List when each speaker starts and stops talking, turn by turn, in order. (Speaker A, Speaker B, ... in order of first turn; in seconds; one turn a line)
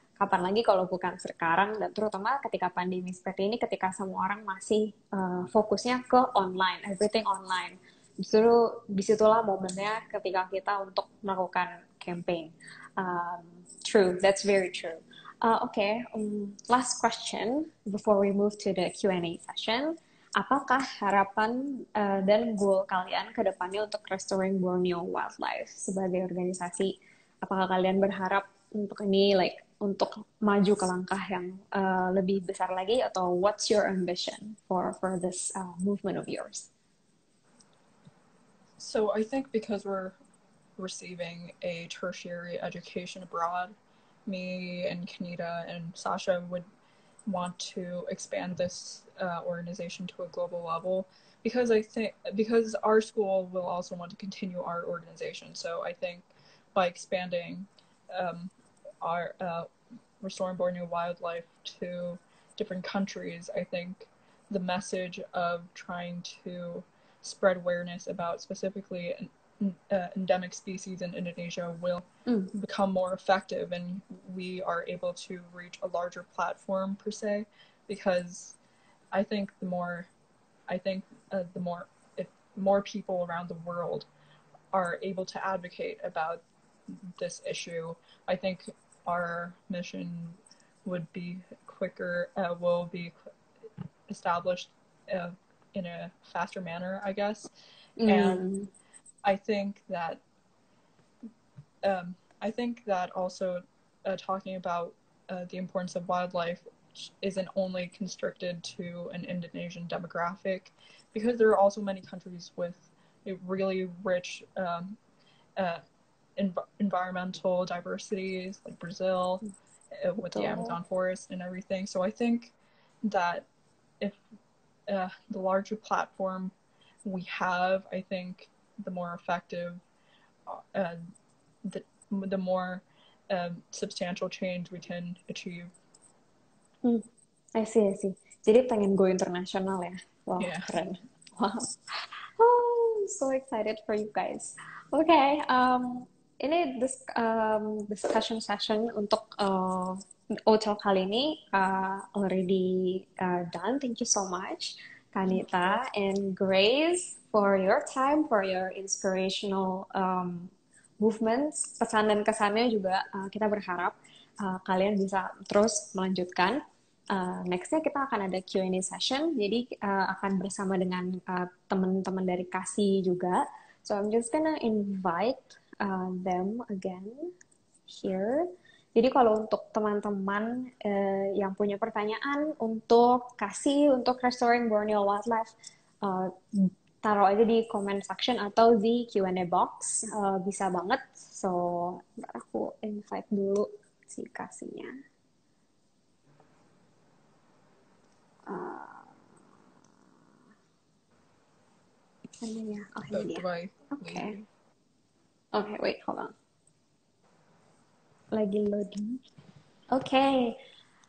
Speaker A: 0.2-36.7
Speaker B: 38.8-40.2
Speaker B: 40.8-43.8
Speaker B: 44.3-46.7
Speaker B: 47.3-59.7
Speaker B: 60.2-78.6
Speaker A: 72.3-72.6
Speaker B: 79.1-80.1
Speaker B: 80.7-84.1
Speaker B: 84.7-93.2
Speaker B: 94.1-97.5
Speaker A: 98.0-98.7
Speaker B: 98.1-98.5
Speaker B: 99.2-100.2
Speaker B: 101.8-115.0
Speaker B: 115.6-115.8
Speaker B: 116.4-119.4
Speaker B: 120.0-123.5
Speaker A: 120.3-120.8
Speaker B: 124.9-129.8
Speaker B: 130.5-131.0
Speaker B: 131.6-135.7
Speaker A: 136.8-166.6
Speaker B: 140.4-140.7
Speaker B: 155.3-155.8
Speaker A: 167.1-177.3
Speaker A: 177.9-195.0
Speaker A: 198.5-199.1
Speaker A: 202.4-204.4
Speaker B: 203.1-204.4
Speaker A: 205.5-206.3
Speaker A: 208.3-209.2
Speaker A: 209.9-210.6